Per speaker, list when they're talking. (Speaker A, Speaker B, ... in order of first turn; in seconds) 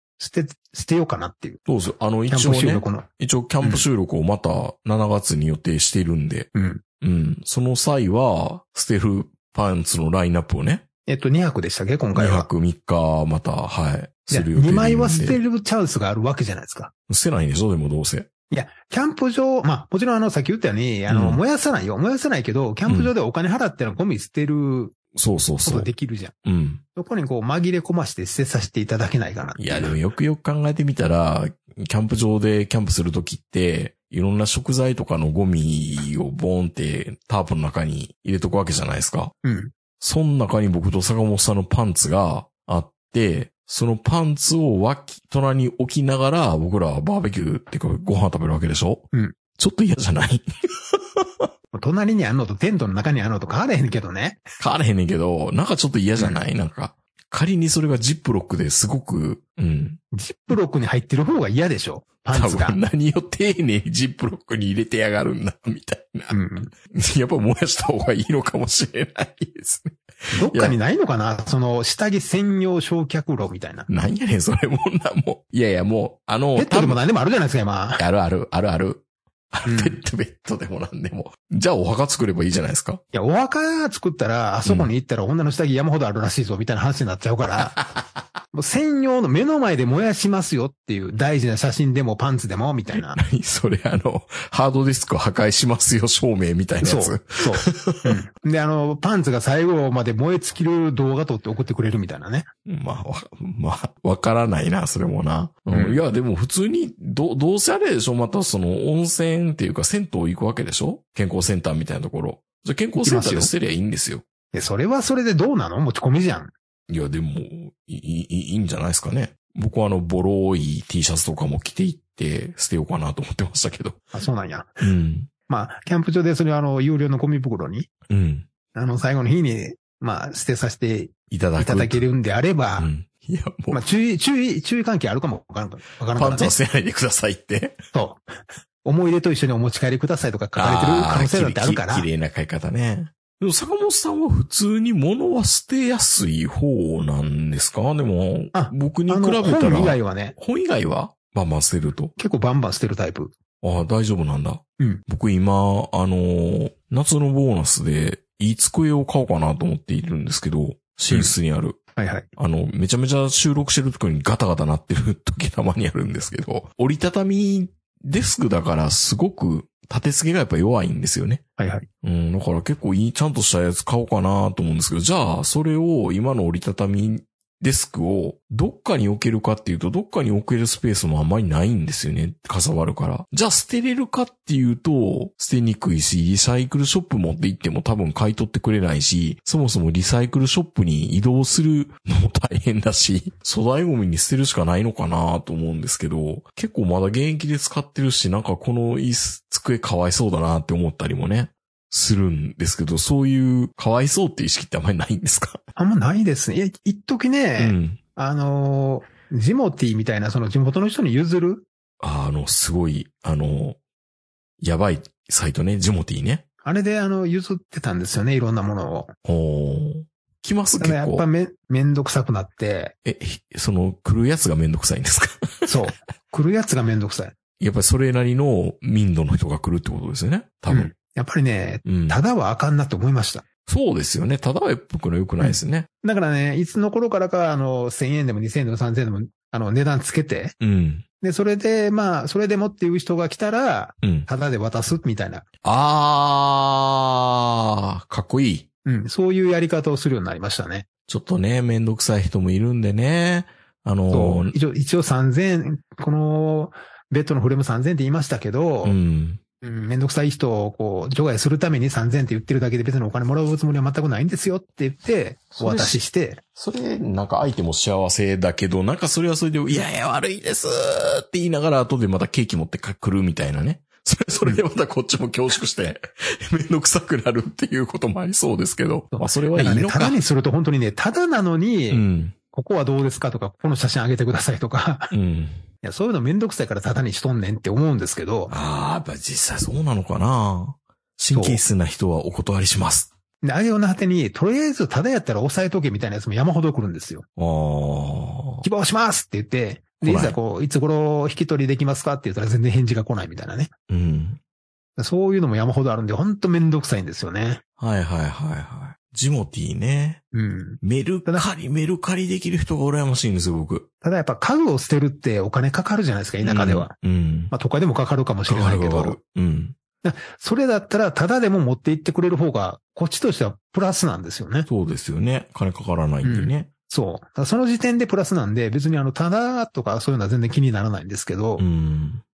Speaker A: 0.2-1.6, 2.3-3.1, 6.5-6.8, 11.1-12.5, 14.3-16.9, 18.5-24.9, 25.6-26.3, 27.0-30.0, 39.4-39.7, 51.7-54.4, 56.2-56.4, 60.1-62.8, 66.3-66.7, 70.3-73.9, 76.6-78.0, 79.7-80.0, 83.1-87.8, 88.5-93.2, 96.8-102.5, 105.7-106.0, 113.0-113.5, 114.5-116.5, 124.1-124.8, 125.5-127.9, 128.7-132.9, 133.7-136.6, 137.9-138.2, 138.8-142.1, 148.5-150.3, 152.2-153.3, 162.0-162.3, 171.6-171.9, 205.8-211.7, 216.6-219.1, 220.8-222.9, 225.7-227.3, 230.7-233.4, 235.4-240.6, 241.2-245.4, 248.9-250.9, 254.1-259.0, 259.6-266.4, 279.1-285.1, 285.8-288.5, 291.3-291.6, 293.4-297.2, 298.6-303.7, 305.0-307.6, 310.3-311.5, 314.0-316.9, 317.5-319.2, 320.0-324.7, 326.2-331.6
Speaker B: 1.7-6.5, 7.0-10.8, 12.2-15.4, 17.1-18.3, 21.1-21.4, 22.9-23.1, 25.1-25.9, 26.4-26.8, 29.6-39.3, 40.0-51.5, 54.6-60.0, 62.3-70.8, 73.9-77.0, 78.0-83.0, 84.7-84.9, 87.6-88.0, 92.9-98.1, 102.7-114.2, 116.9-124.0, 124.8-125.3, 128.1-128.5, 131.3-132.0, 132.8-133.8, 136.2-137.8, 140.6-152.1, 153.6-161.8, 162.4-171.4, 172.0-205.6, 207.6-208.0, 212.0-213.8, 214.6-216.4, 219.2-221.2, 223.0-225.8, 227.6-230.9, 231.8-232.2, 233.7-235.9, 240.6-241.1, 244.0-244.3, 245.6-248.7, 251.1-254.6, 258.8-259.4, 265.6-266.0, 266.6-280.2, 281.9-282.4, 285.1-285.6, 288.5-293.1, 297.4-298.7, 300.0-300.4, 303.9-304.4, 307.8-310.2, 310.8-313.9, 316.4-317.5, 318.5-319.8, 324.7-326.7, 331.6-332.2